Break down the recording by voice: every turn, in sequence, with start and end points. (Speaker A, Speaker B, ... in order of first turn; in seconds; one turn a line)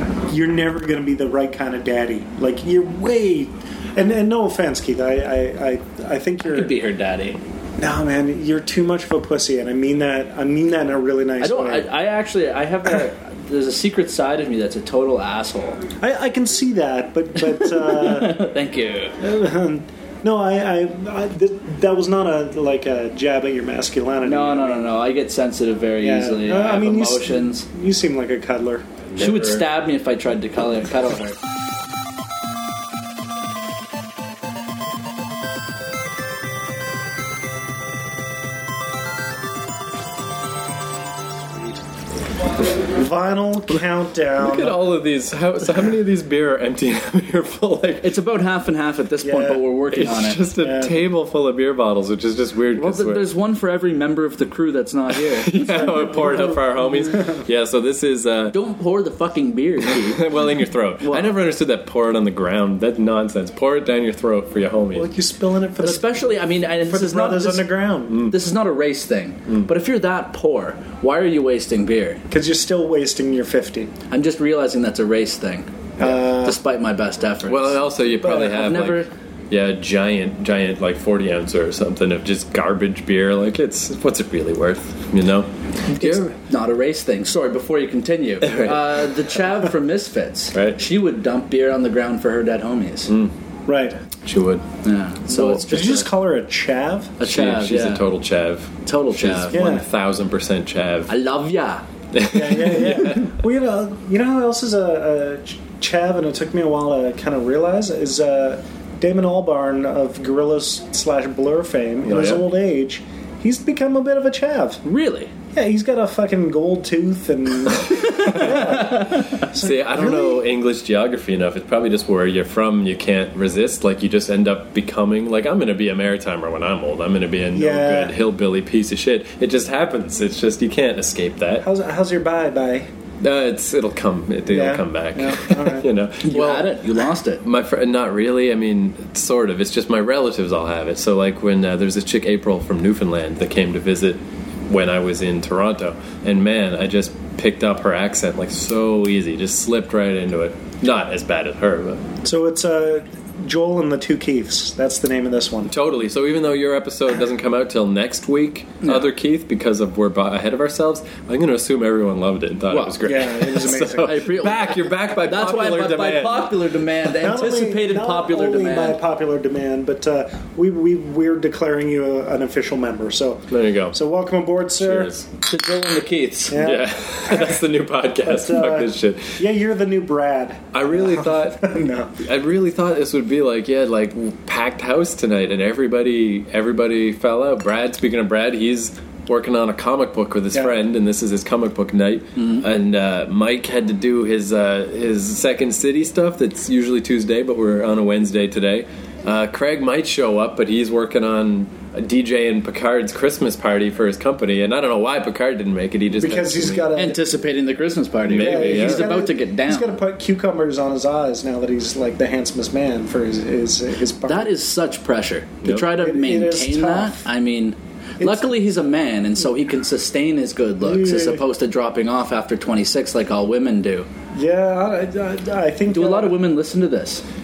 Speaker A: 0.3-6.8
Speaker B: 6.4-7.4
Speaker A: 7.8-11.9
Speaker B: 11.4-15.8
Speaker A: 16.0-18.5
Speaker B: 17.6-19.2
Speaker A: 19.2-24.9
Speaker B: 24.2-27.6
Speaker A: 26.0-28.8
Speaker C: 29.1-29.6
Speaker B: 29.1-31.4
Speaker A: 42.9-44.8
Speaker C: 44.4-48.1
Speaker B: 48.0-50.4
Speaker A: 49.2-49.6
Speaker C: 49.9-53.2
Speaker A: 50.6-51.0
Speaker B: 52.8-56.5
Speaker C: 55.1-58.6
Speaker B: 58.5-60.4
Speaker C: 59.8-65.1
Speaker B: 61.0-61.4
Speaker A: 64.9-68.3
Speaker B: 65.8-72.2
Speaker C: 68.1-68.3
Speaker A: 72.3-73.9
Speaker B: 74.1-79.1
Speaker A: 76.0-76.6
Speaker C: 77.5-86.3
Speaker B: 85.9-93.1
Speaker C: 88.4-89.3
Speaker C: 90.5-90.8
Speaker C: 93.1-93.3
Speaker A: 93.7-94.0
Speaker C: 94.2-94.7
Speaker B: 94.8-96.1
Speaker C: 95.3-96.0
Speaker A: 95.3-97.2
Speaker B: 97.2-98.0
Speaker C: 97.2-101.1
Speaker B: 98.8-99.6
Speaker A: 99.5-99.8
Speaker B: 101.1-101.8
Speaker C: 102.1-103.3
Speaker A: 102.3-114.8
Speaker C: 112.0-112.5
Speaker B: 114.8-115.3
Speaker A: 115.5-120.4
Speaker C: 117.9-131.7
Speaker B: 118.2-119.4
Speaker A: 127.5-128.1
Speaker A: 131.6-132.9
Speaker C: 133.2-136.8
Speaker A: 134.5-135.9
Speaker B: 136.2-137.4
Speaker C: 137.4-152.0
Speaker A: 152.2-155.7
Speaker C: 155.7-166.6
Speaker B: 162.7-163.0
Speaker A: 163.0-164.3
Speaker B: 163.9-169.0
Speaker A: 167.2-175.1
Speaker C: 173.5-173.9
Speaker C: 174.8-175.3
Speaker B: 175.5-176.6
Speaker A: 176.5-177.6
Speaker C: 176.6-179.4
Speaker A: 178.2-182.1
Speaker C: 180.7-181.6
Speaker C: 182.2-206.9
Speaker B: 192.4-192.6
Speaker A: 206.2-207.3
Speaker B: 206.9-210.0
Speaker C: 208.3-209.2
Speaker A: 208.3-214.5
Speaker B: 214.2-224.1
Speaker A: 215.8-217.3
Speaker A: 218.2-218.5
Speaker A: 220.8-221.4
Speaker A: 224.3-226.4
Speaker B: 225.9-227.2